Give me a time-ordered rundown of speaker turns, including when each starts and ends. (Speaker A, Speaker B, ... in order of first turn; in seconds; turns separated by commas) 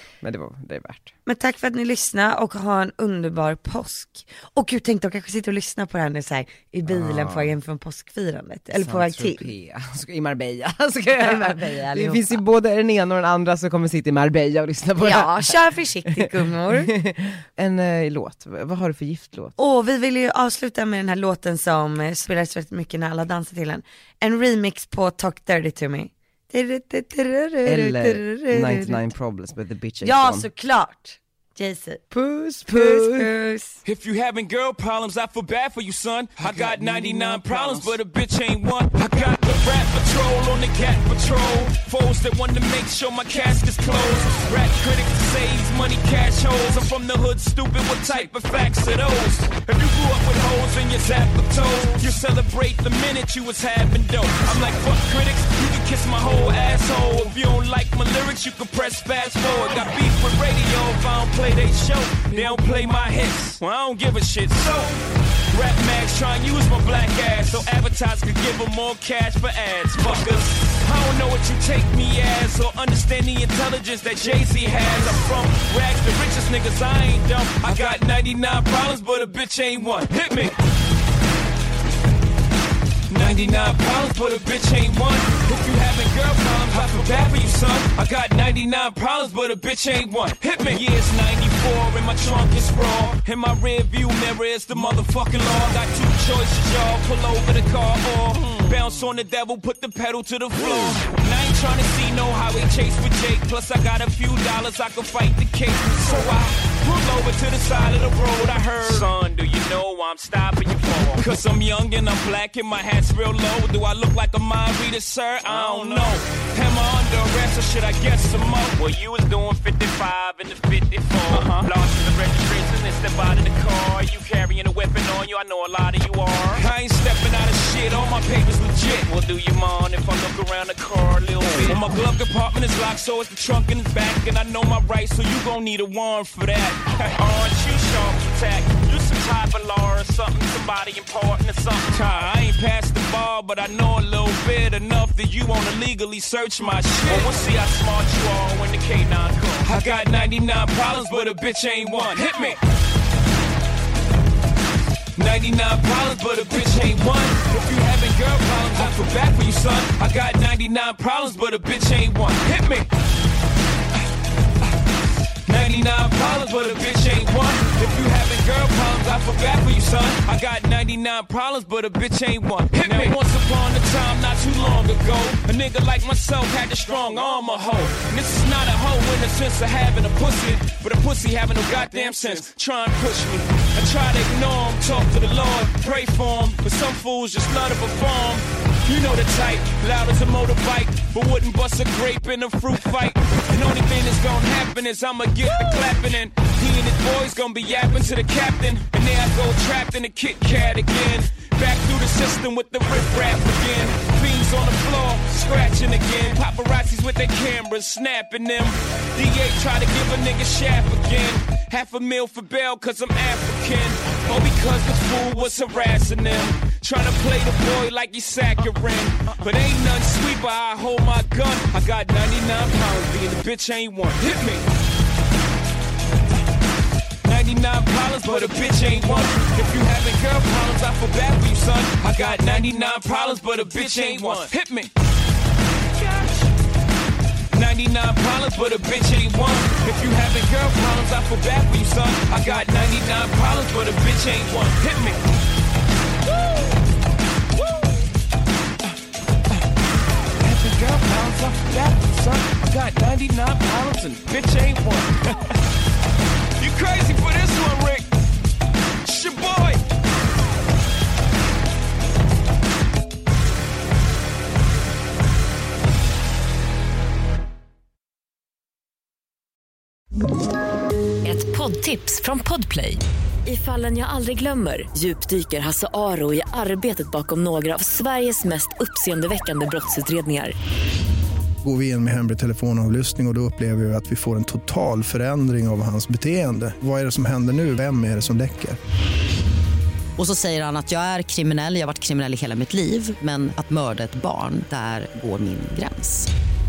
Speaker A: 0.2-1.1, Speaker B: 1.2-9.5, Speaker A: 6.9-7.5, Speaker A: 8.7-19.5, Speaker B: 11.2-12.4, Speaker B: 15.0-16.9, Speaker B: 19.6-29.1, Speaker A: 27.6-30.5, Speaker B: 30.0-32.1, Speaker A: 32.1-33.3, Speaker B: 32.7-33.8, Speaker C: 33.8-80.6, Speaker A: 36.4-38.0, Speaker C: 83.1-152.6, Speaker C: 155.2-162.9, Speaker C: 165.4-224.7, Speaker C: 227.2-234.9, Speaker C: 236.0-236.4, Speaker C: 237.5-245.2, Speaker C: 247.6-247.9, Speaker C: 250.4-255.4, Speaker C: 256.6-258.1, Speaker C: 259.0-259.8, Speaker D: 271.2-280.5, Speaker E: 281.6-288.8, Speaker F: 290.2-296.3